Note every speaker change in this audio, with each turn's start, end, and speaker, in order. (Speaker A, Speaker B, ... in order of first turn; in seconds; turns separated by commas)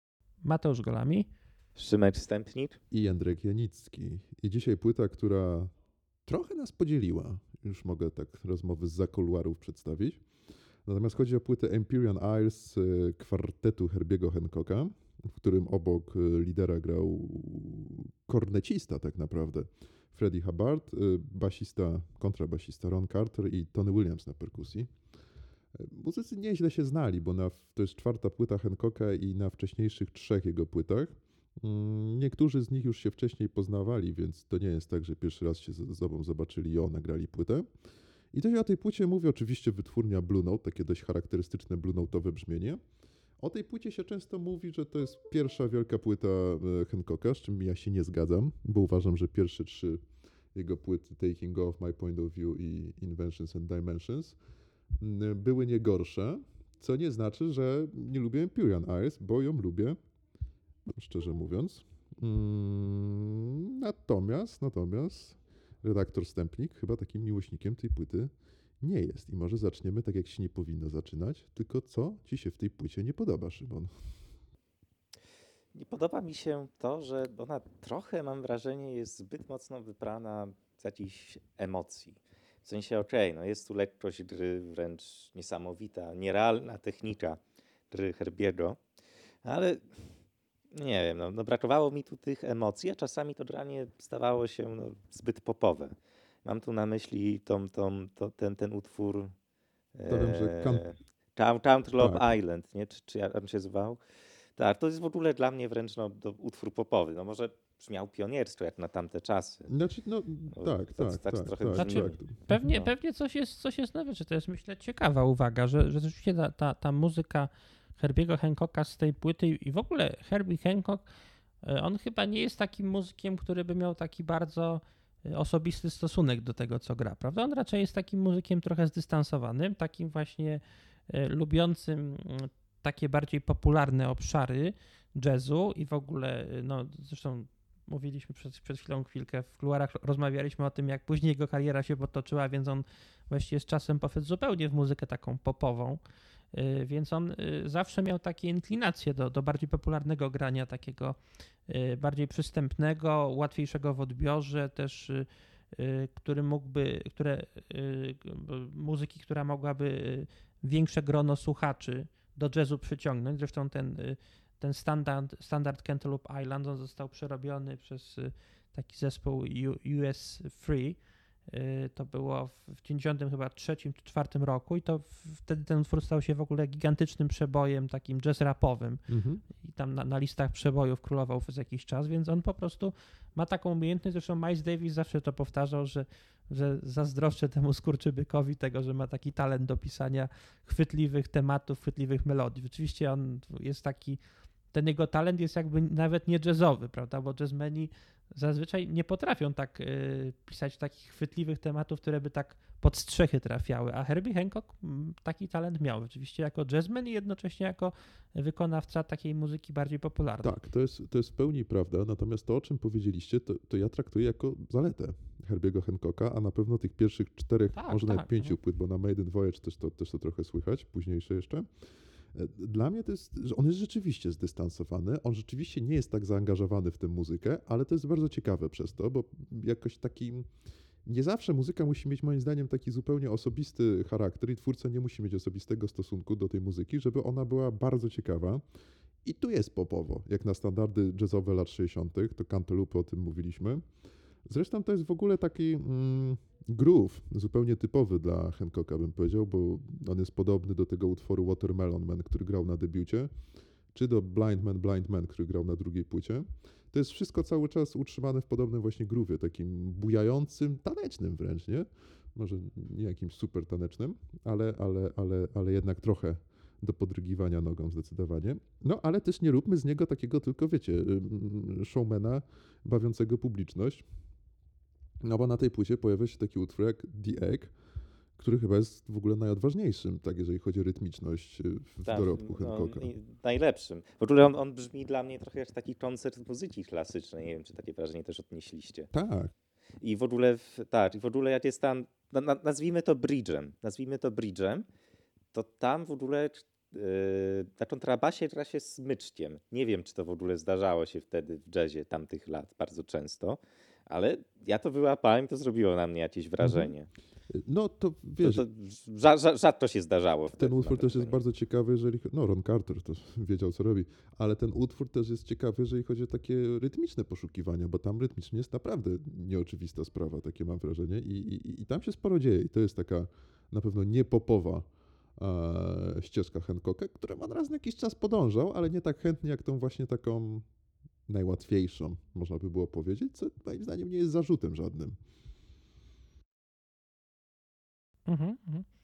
Speaker A: 0.4-1.3, Speaker B: 1.8-2.8, Speaker C: 2.9-5.7, Speaker C: 6.3-10.2, Speaker C: 10.8-24.9, Speaker C: 25.7-37.6, Speaker C: 38.3-42.8, Speaker C: 43.4-50.0, Speaker C: 50.5-54.4, Speaker C: 55.0-60.0, Speaker C: 60.9-73.9, Speaker B: 75.7-88.8, Speaker B: 89.4-90.1, Speaker B: 90.7-99.3, Speaker B: 99.9-104.0, Speaker C: 100.0-100.9, Speaker C: 102.0-102.4, Speaker B: 104.6-109.7, Speaker C: 109.7-112.8, Speaker B: 110.5-112.2, Speaker A: 111.7-146.0, Speaker A: 146.5-151.1, Speaker A: 151.7-179.1, Speaker C: 179.1-179.4, Speaker A: 179.6-194.2, Speaker A: 194.7-210.5, Speaker C: 210.4-221.7, Speaker A: 217.8-218.6, Speaker C: 222.3-230.4, Speaker C: 231.1-238.6, Speaker C: 239.2-243.8, Speaker C: 244.5-253.3, Speaker C: 253.9-274.0, Speaker C: 275.2-277.7, Speaker C: 278.4-283.1, Speaker B: 282.0-289.1, Speaker C: 289.1-289.5, Speaker B: 290.0-294.9, Speaker B: 295.5-307.1, Speaker C: 306.6-306.9, Speaker C: 307.5-308.6, Speaker B: 308.4-311.4, Speaker C: 310.5-330.6, Speaker C: 331.3-335.2, Speaker A: 338.3-338.9